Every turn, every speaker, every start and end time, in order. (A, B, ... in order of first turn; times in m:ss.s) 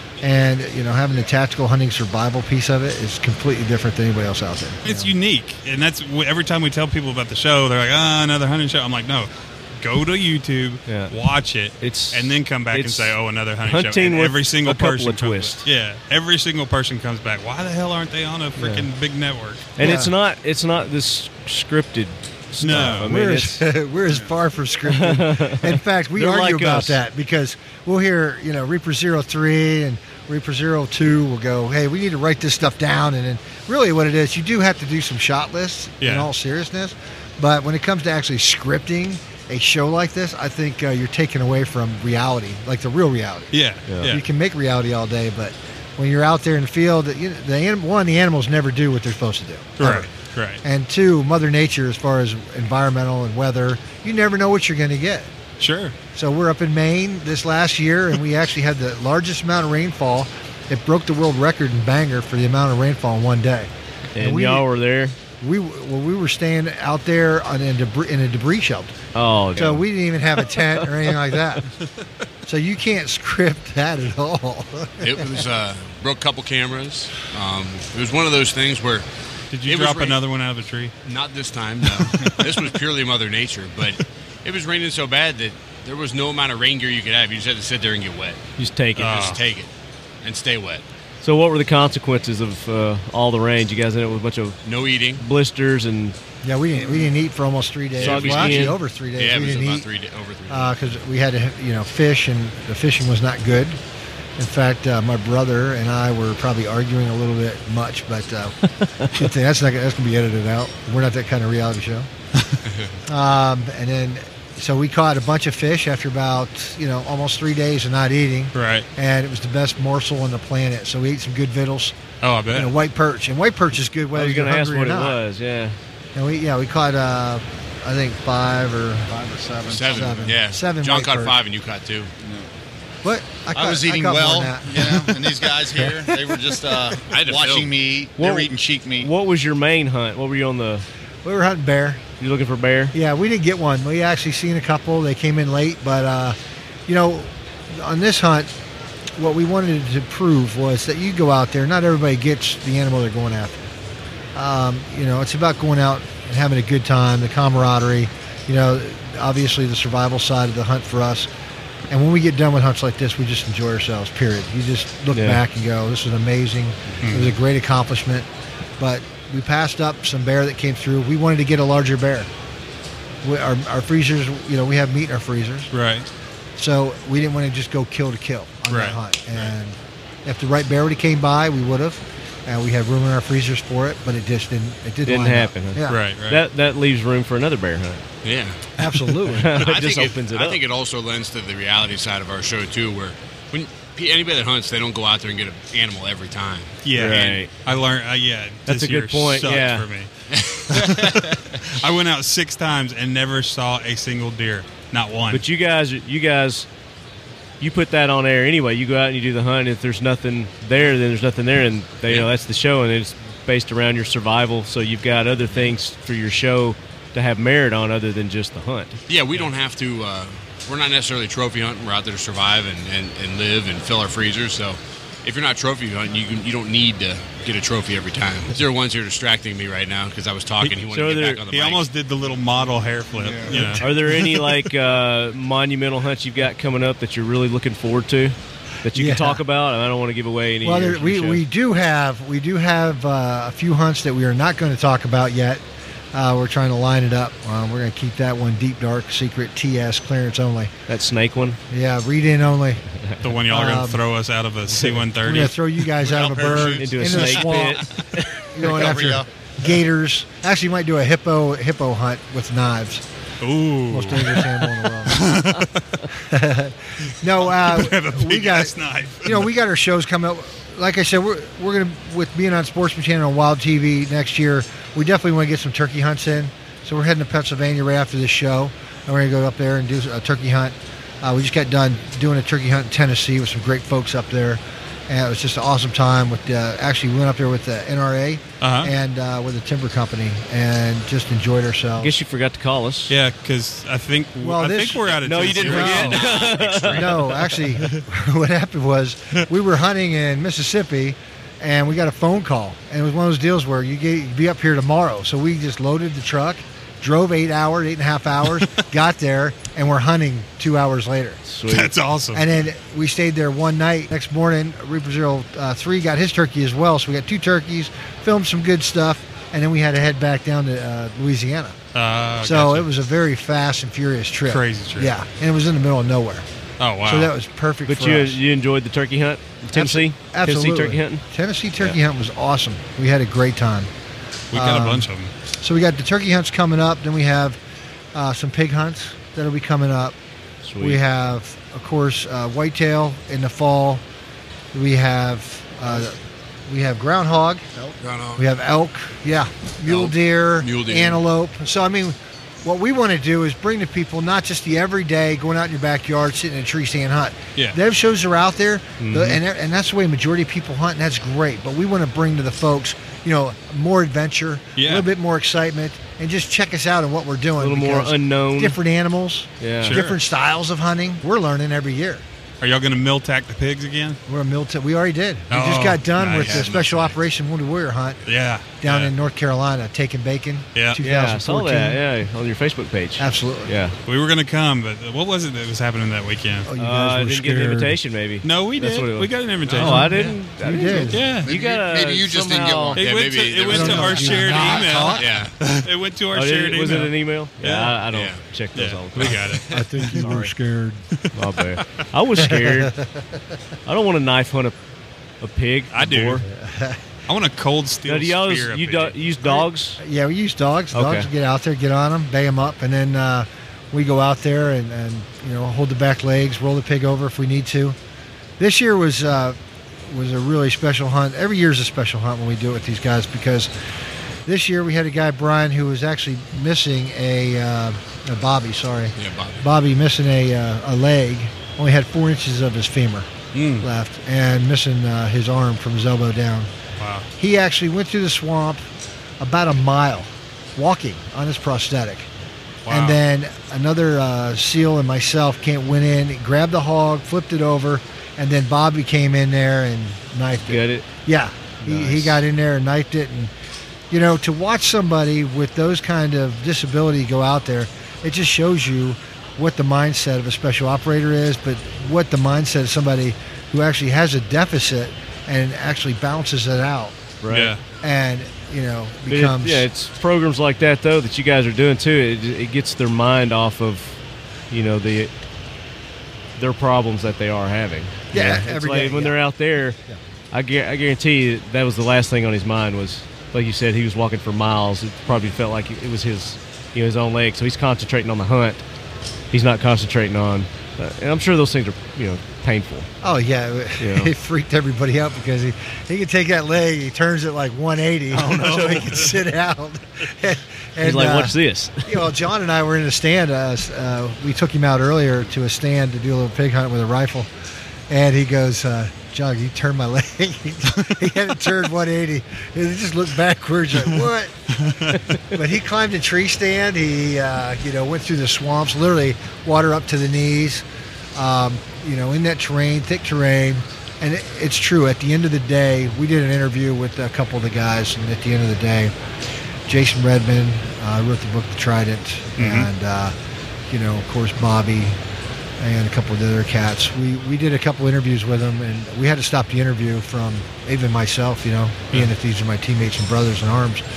0:00.2-0:05.1 A
0:04.8-0:19.8 B
0:10.9-0:11.1 C
0:11.7-0:15.6 C
0:18.6-0:18.8 C
0:19.8-0:23.6 C
0:19.8-0:20.1 A
0:22.6-0:23.1 B
0:22.7-0:43.5 A
0:24.8-0:27.0 C
0:36.0-0:36.3 B
0:43.5-0:44.2 B
0:43.9-0:44.1 C
0:44.0-0:50.1 A
0:49.8-0:50.6 B
0:50.6-0:55.3 A
0:55.6-0:56.0 B
0:56.1-1:04.7 A
1:04.1-1:05.2 C
1:05.4-1:08.9 A
1:09.1-1:09.9 C
1:09.6-1:11.6 A
1:12.4-1:15.3 A
1:15.0-1:19.0 D
1:19.5-1:20.9 B
1:19.6-1:20.2 D
1:21.0-1:28.4 D
1:28.6-1:29.2 C
1:29.0-1:29.4 B
1:29.0-1:29.7 D
1:30.2-1:30.8 D
1:31.2-1:34.6 C
1:34.6-1:35.2 D
1:35.2-1:36.2 C
1:36.4-1:39.9 A
1:38.0-1:40.8 D
1:38.0-1:38.8 C
1:40.5-1:43.8 A
1:44.4-1:48.6 A
1:49.1-1:52.1 A
1:53.1-2:01.9 A
1:58.5-1:58.9 B
2:02.2-2:02.8 B
2:02.5-2:05.2 A
2:04.1-2:05.8 C
2:06.1-2:09.1 A
2:09.1-2:10.4 E
2:09.7-2:12.1 D
2:09.9-2:11.4 A
2:12.2-2:12.5 E
2:13.0-2:15.1 A
2:13.5-2:19.1 E
2:15.7-2:16.1 A
2:17.1-2:17.8 D
2:18.2-2:20.8 C
2:21.2-2:22.0 A
2:22.2-2:22.9 C
2:22.9-2:28.5 A
2:29.2-2:33.6 A
2:34.3-2:41.3 A
2:41.9-2:48.3 A
2:45.1-2:45.4 C
2:47.0-2:47.4 B
2:48.8-2:52.3 A
2:53.2-2:55.7 A
2:55.7-2:56.0 B
2:56.6-3:06.0 A
2:58.7-2:59.0 B
3:05.0-3:08.0 C
3:05.9-3:06.4 B
3:08.2-3:08.6 D
3:08.8-3:09.6 A
3:09.3-3:10.6 C
3:09.5-3:17.4 D
3:16.8-3:20.1 B
3:16.9-3:17.5 C
3:18.7-3:19.9 C
3:20.3-3:21.2 D
3:20.7-3:25.4 B
3:25.3-3:26.7 C
3:27.6-3:39.0 C
3:39.1-3:51.9 D
3:50.6-3:51.4 C
3:51.5-3:54.2 B
3:53.1-3:53.7 E
3:53.5-3:53.8 A
3:53.8-4:01.4 C
3:58.9-3:59.4 A
4:00.6-4:10.7 A
4:10.9-4:11.6 C
4:11.7-4:12.8 A
4:13.2-4:15.6 B
4:13.5-4:14.0 A
4:15.2-4:17.8 A
4:16.0-4:17.3 E
4:16.7-4:18.4 C
4:18.5-4:23.0 A
4:18.6-4:19.3 E
4:23.4-4:26.0 B
4:23.9-4:25.4 A
4:26.2-4:52.1 A
4:27.3-4:29.5 B
4:48.6-4:48.9 B
4:52.0-4:53.1 C
4:53.1-4:56.2 B
4:54.4-4:55.1 A
4:55.2-4:57.4 C
4:55.5-4:57.4 D
4:55.6-4:56.1 A
4:56.9-5:11.4 A
5:11.4-5:11.9 C
5:11.7-5:12.4 B
5:12.3-5:21.8 A
5:21.9-5:22.9 B
5:22.4-5:26.4 A
5:24.5-5:25.1 B
5:26.8-5:27.3 B
5:27.0-5:28.4 A
5:27.8-5:31.2 C
5:29.7-5:33.9 A
5:34.5-5:35.3 B
5:34.5-5:35.1 A
5:35.6-5:37.6 A
5:38.1-5:40.1 A
5:40.6-5:41.0 C
5:40.8-5:44.0 A
5:44.7-5:47.6 A
5:48.0-5:48.4 D
5:48.4-6:12.2 A
5:49.9-5:51.2 D
5:59.0-5:59.4 C
6:04.8-6:05.1 B
6:07.6-6:08.8 C
6:09.6-6:10.0 C
6:09.8-6:10.2 B
6:12.6-6:14.2 B
6:14.3-6:18.2 A
6:15.5-6:16.6 B
6:16.2-6:17.2 D
6:18.2-6:19.1 B
6:18.8-6:22.0 A
6:21.0-6:23.9 C
6:23.2-6:23.7 A
6:24.0-6:26.7 B
6:26.6-6:28.0 A
6:26.8-6:33.0 C
6:28.4-6:30.3 B
6:29.8-6:31.4 A
6:31.1-6:31.5 B
6:31.4-6:33.0 E
6:32.9-6:38.0 B
6:33.0-6:35.5 D
6:33.7-6:35.3 A
6:36.3-6:40.5 C
6:38.1-6:38.4 D
6:38.7-6:40.2 B
6:39.7-6:41.0 A
6:41.3-6:42.9 C
6:42.4-6:43.2 A
6:43.8-6:44.8 C
6:45.4-6:46.4 C
6:45.9-6:46.4 B
6:46.4-6:47.0 A
6:47.3-6:49.6 B
6:48.0-6:50.0 C
6:50.0-6:58.0 A
6:50.9-6:51.3 C
6:58.6-7:03.7 A
7:04.4-7:16.7 A
7:09.2-7:09.6 D
7:13.5-7:13.8 B
7:17.0-7:17.3 B
7:17.4-7:18.8 A
7:19.4-7:22.3 A
7:22.8-7:23.2 B
7:22.9-7:33.5 A
7:30.6-7:31.1 C
7:31.8-7:32.4 C
7:34.1-7:47.2 A
7:47.4-7:47.7 C
7:47.5-7:47.8 B
7:48.0-7:49.8 A
7:49.3-7:54.2 C
7:54.7-7:55.3 C
7:56.6-8:00.0 C
7:58.3-7:59.4 A
8:00.5-8:08.8 C
8:09.5-8:13.1 C
8:13.2-8:27.5 A
8:14.0-8:14.3 C
8:18.4-8:19.4 B
8:18.4-8:19.1 C
8:21.0-8:22.3 C
8:28.1-8:34.5 A
8:34.7-8:35.2 B
8:35.5-8:49.1 A
8:49.9-8:53.3 A
8:52.6-8:52.9 B
8:53.9-8:55.2 A
8:55.8-9:04.0 A